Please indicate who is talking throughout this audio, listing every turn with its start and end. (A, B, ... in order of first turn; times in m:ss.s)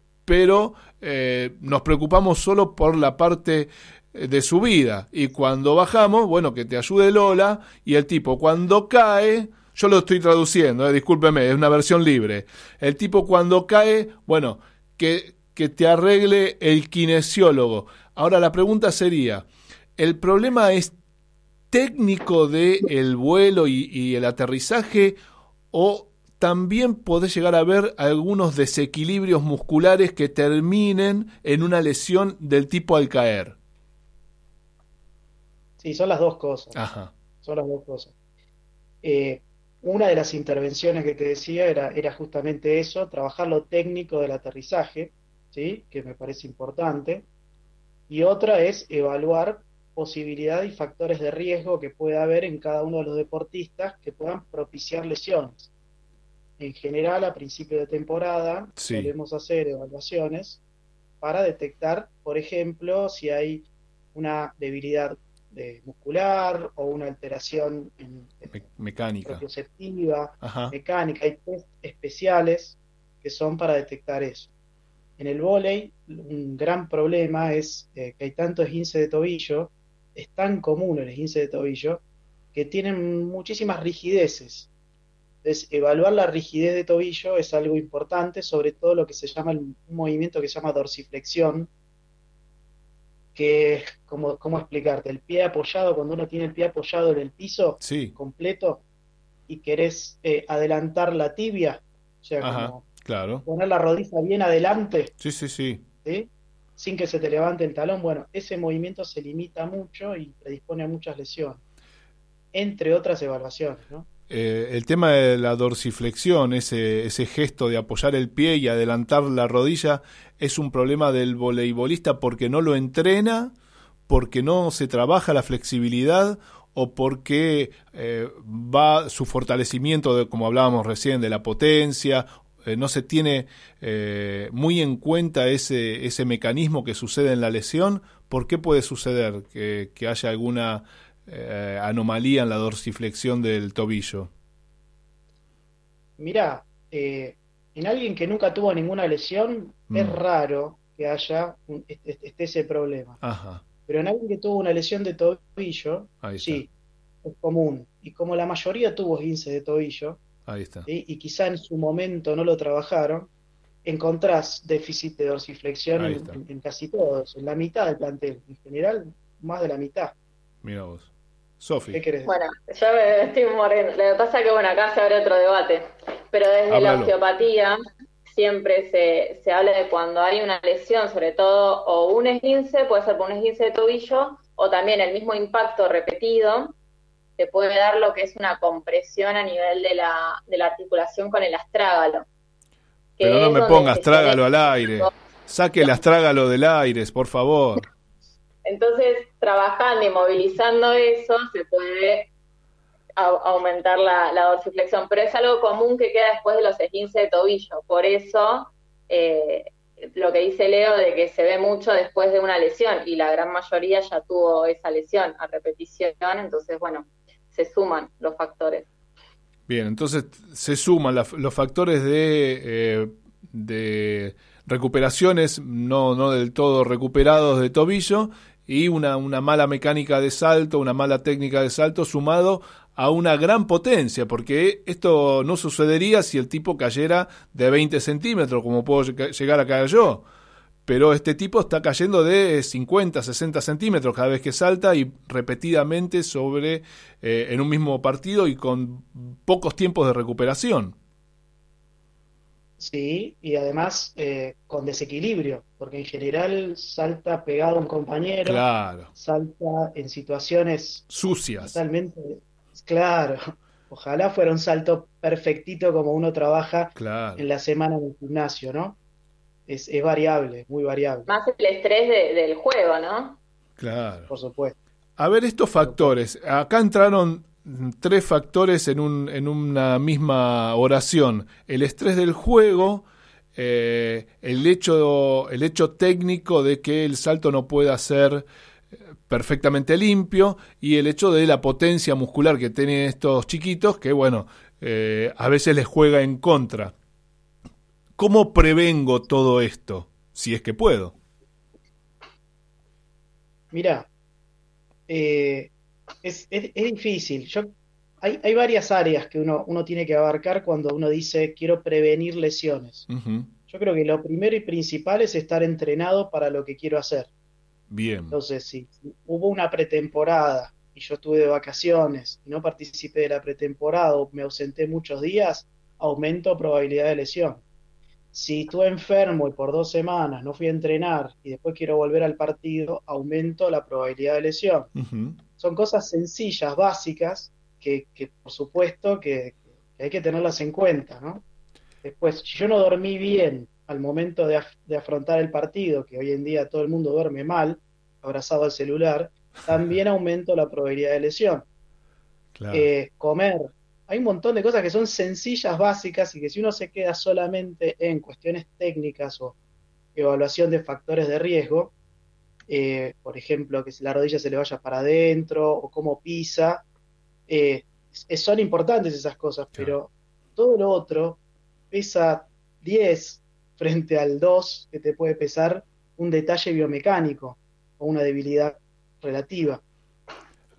0:00.3-0:19.4 A
0:20.0-0:20.9 A
0:21.7-0:25.2 A
0:25.7-0:33.6 A
0:35.8-0:36.8 B
0:36.8-0:37.1 A
0:37.4-0:38.1 B
0:39.0-0:47.2 B
0:48.1-0:55.7 B
0:56.6-1:00.6 B
0:58.8-0:59.1 A
1:01.2-1:08.6 B
1:08.5-1:09.4 A
1:09.3-1:14.5 B
1:10.4-1:10.7 A
1:15.2-1:22.0 B
1:22.5-1:24.7 B
1:25.4-1:31.7 B
1:33.4-1:38.8 B
1:37.8-1:38.1 A
1:39.5-1:42.8 B
1:42.4-1:43.4 A
1:43.4-1:45.1 B
1:45.2-1:45.8 A
1:46.0-1:51.6 B
1:52.5-1:54.1 B
1:54.3-2:03.5 A
2:04.1-2:24.3 A
2:26.2-2:33.2 B
2:29.9-2:30.2 A
2:33.2-2:33.6 A
2:33.9-2:36.7 B
2:36.2-2:36.6 A
2:37.2-2:40.2 B
2:40.5-2:40.9 A
2:40.9-2:43.3 B
2:43.8-2:50.1 B
2:46.0-2:46.4 A
2:50.6-2:51.1 A
2:51.6-2:52.0 A
2:51.9-2:52.3 B
2:52.2-3:06.8 C
2:56.7-2:57.1 A
3:07.4-3:12.3 C
3:13.2-3:15.1 C
3:13.2-3:17.8 A
3:18.6-3:22.3 C
3:23.2-3:38.8 C
3:39.7-4:00.2 A
4:00.9-4:11.0 A
4:12.8-4:21.0 B
4:18.4-4:19.1 A
4:21.1-4:21.8 A
4:21.6-4:29.0 B
4:27.0-4:27.4 A
4:29.7-4:31.3 B
4:31.3-4:33.4 C
4:33.8-4:34.3 A
4:34.3-4:34.8 B
4:35.2-4:43.0 A
4:35.8-4:36.1 B
4:43.6-4:48.5 A
4:49.3-4:56.9 A
4:58.2-5:01.1 A
5:03.7-5:04.1 B
5:05.1-5:05.7 B
5:06.2-5:13.0 B
5:13.1-5:13.5 A
5:13.7-5:17.3 B
5:17.9-5:18.4 A
5:18.3-5:27.6 B
5:28.3-5:34.9 B
5:35.0-5:35.4 A
5:35.6-5:41.4 B
5:42.0-5:51.6 B
5:52.6-5:52.9 A
5:52.7-5:59.6 B
6:00.2-6:01.9 B
6:02.7-6:06.8 B
6:07.5-6:11.4 B
6:11.9-6:19.8 B